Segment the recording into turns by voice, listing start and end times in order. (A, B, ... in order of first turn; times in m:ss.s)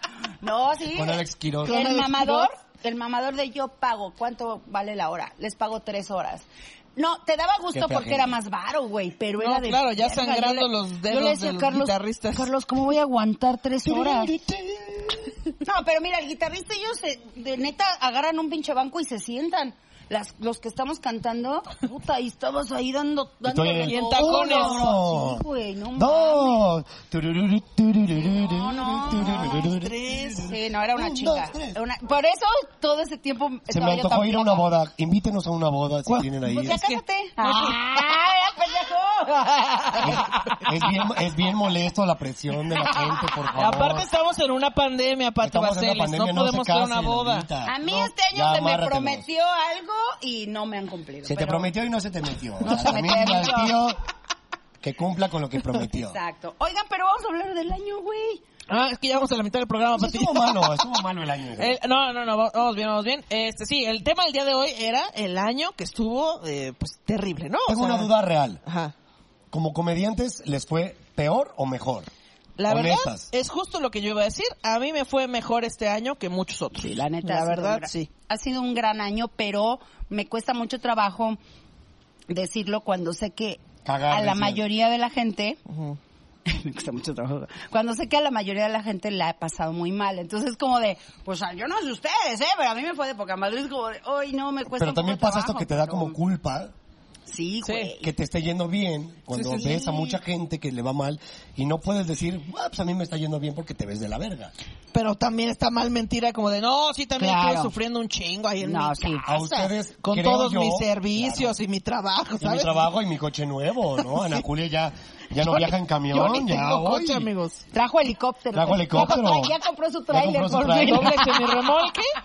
0:00.4-0:14.3 A
0:00.9-0:01.8 B
0:01.6-0:02.5 C
0:07.7-0:08.3 B
0:09.4-0:12.5 C
0:13.8-0:15.3 B
0:15.6-0:26.6 A
0:23.4-0:25.4 B
0:23.8-0:24.9 C
0:25.9-0:31.8 B
0:28.3-0:29.8 A
0:29.2-0:30.5 C
0:30.3-0:34.7 A
0:33.7-0:36.8 B
0:36.1-0:38.1 C
0:36.4-0:40.2 A
0:39.5-0:40.6 C
0:40.0-0:44.1 B
0:43.5-0:47.5 C
0:45.4-0:49.2 B
0:47.6-0:51.7 A
0:51.2-0:54.0 B
0:52.6-0:53.7 A
0:52.7-0:53.6 C
0:54.8-0:56.2 B
0:56.0-0:58.4 A
0:58.7-1:00.8 C
1:00.0-1:01.8 B
1:01.6-1:08.1 C
1:07.6-1:08.6 B
1:08.6-1:08.9 C
1:09.5-1:12.1 B
1:12.6-1:18.1 C
1:12.7-1:13.3 B
1:16.8-1:21.4 A
1:22.3-1:25.6 A
1:23.8-1:24.6 B
1:25.7-1:26.0 C
1:26.4-1:36.2 A
1:34.8-1:36.7 B
1:37.3-1:38.1 A
1:37.6-1:37.9 C
1:38.0-1:44.5 B
1:39.3-1:39.7 C
1:39.4-1:40.2 A
1:44.9-1:49.4 C
1:47.2-1:47.7 A
1:48.6-1:49.7 A
1:49.2-1:51.5 B
1:50.0-1:52.9 C
1:52.4-1:57.3 B
1:54.1-1:54.4 C
1:55.4-1:57.6 C
1:57.7-2:01.5 A
1:58.5-1:59.5 B
2:00.1-2:01.2 B
2:00.6-2:02.1 C